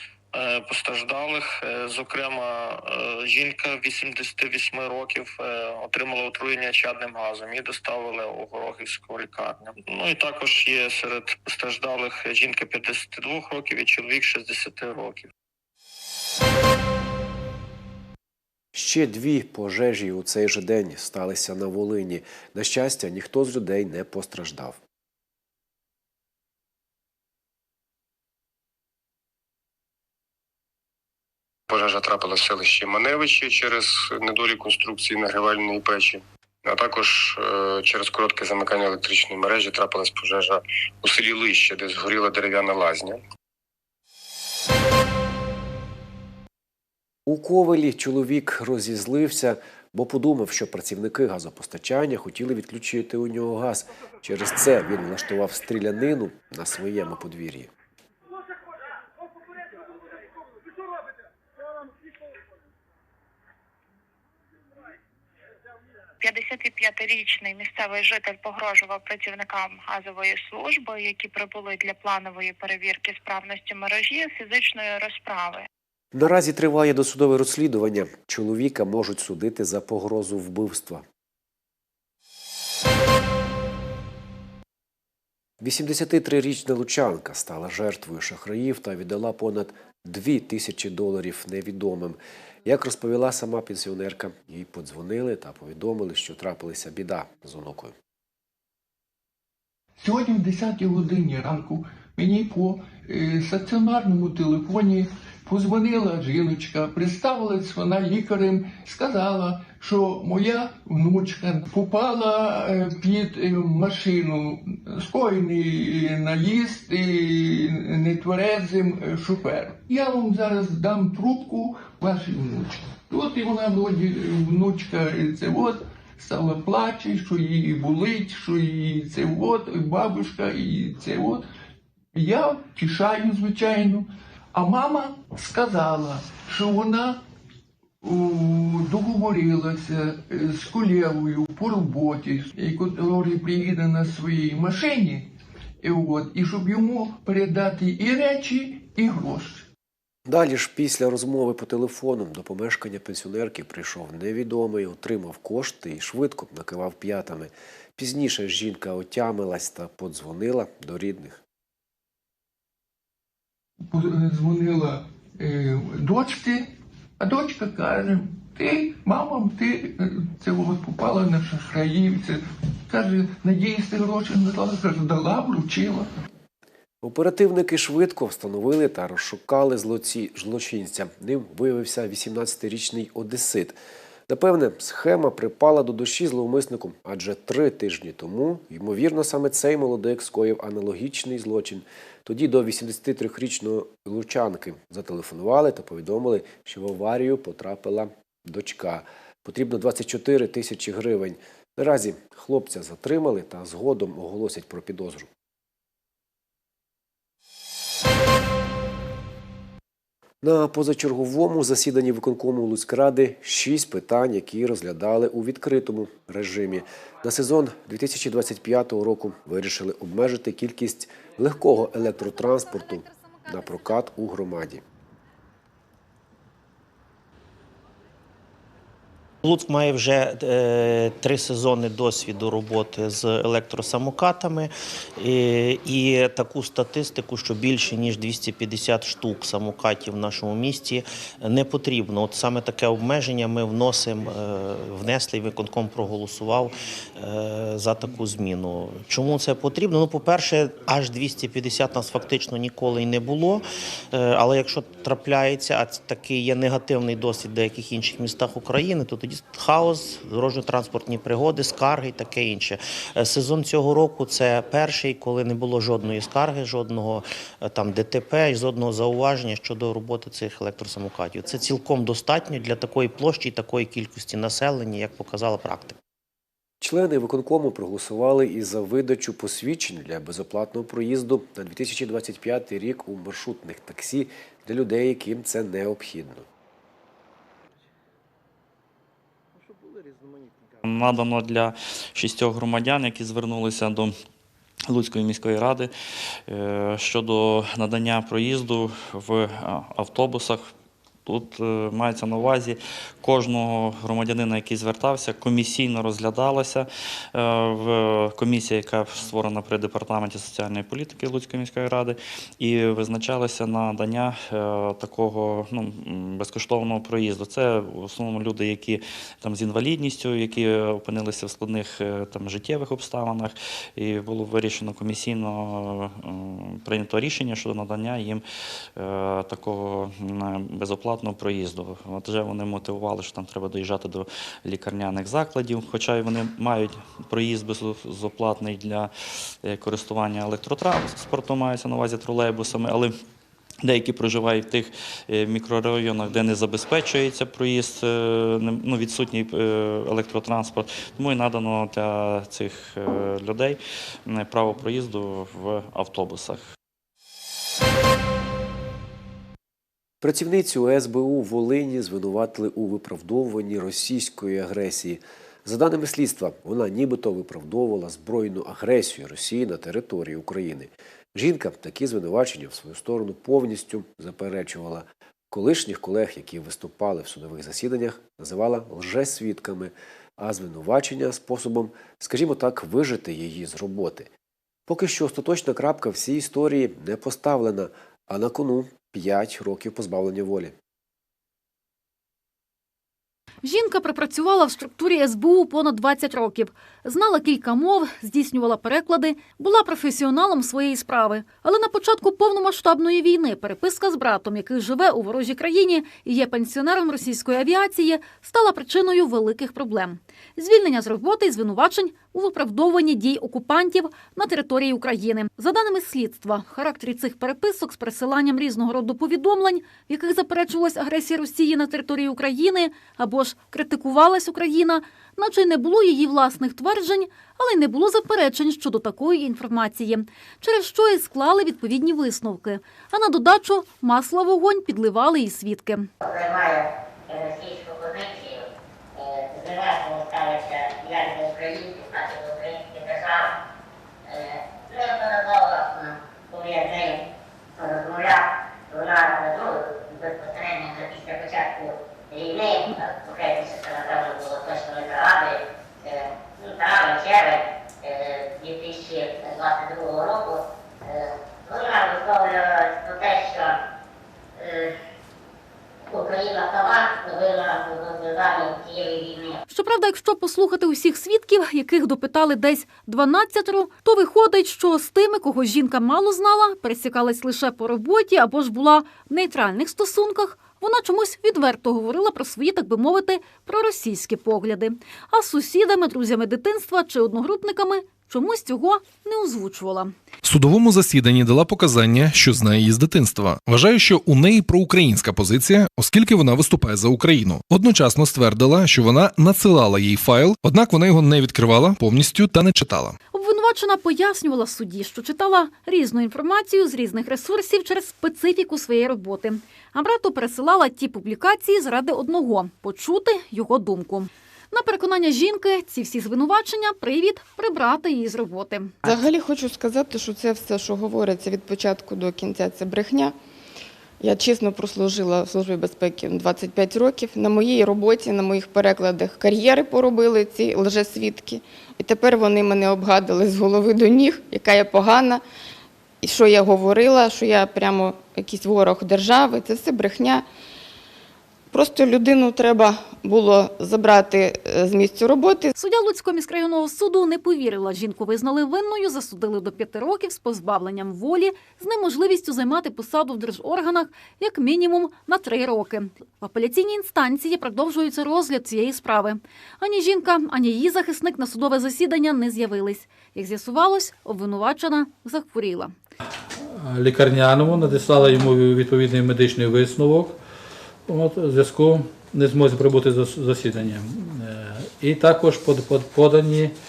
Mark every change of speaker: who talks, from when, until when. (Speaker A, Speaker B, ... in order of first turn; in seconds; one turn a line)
Speaker A: 0.3-15.3
Speaker B: 18.7-24.8
Speaker C: 31.7-43.2
Speaker B: 47.2-57.7
Speaker D: 66.2-75.7
Speaker B: 76.1-81.0
Speaker B: 85.6-97.9
Speaker E: 100.0-131.4
Speaker E: 132.1-137.2
Speaker E: 138.0-145.3
Speaker E: 145.8-149.7
Speaker B: 150.3-161.4
Speaker E: 163.9-176.1
Speaker B: 177.0-205.3
Speaker B: 210.4-224.8
Speaker F: 229.4-276.0
Speaker B: 276.8-286.4
Speaker G: 290.8-294.1
Speaker G: 294.9-295.9
Speaker G: 296.5-300.7
Speaker G: 301.2-328.4
Speaker G: 328.9-339.1
Speaker G: 339.6-343.1
Speaker G: 343.8-356.6
Speaker B: 360.2-384.3
Speaker B: 384.9-390.7
Speaker H: 393.6-436.1
Speaker I: 436.2-438.6
Speaker I: 439.1-443.5
Speaker I: 444.3-447.2
Speaker I: 447.8-463.8
Speaker I: 464.6-464.9
Speaker I: 466.1-469.6
Speaker H: 469.7-490.1
Speaker J: 490.4-503.1
Speaker H: 503.3-518.9
Speaker K: 519.0-523.3
Speaker K: 524.2-535.4
Speaker K: 536.2-540.4
Speaker K: 541.7-545.7
Speaker H: 545.8-565.9
Speaker L: 566.6-570.4
Speaker L: 571.1-576.7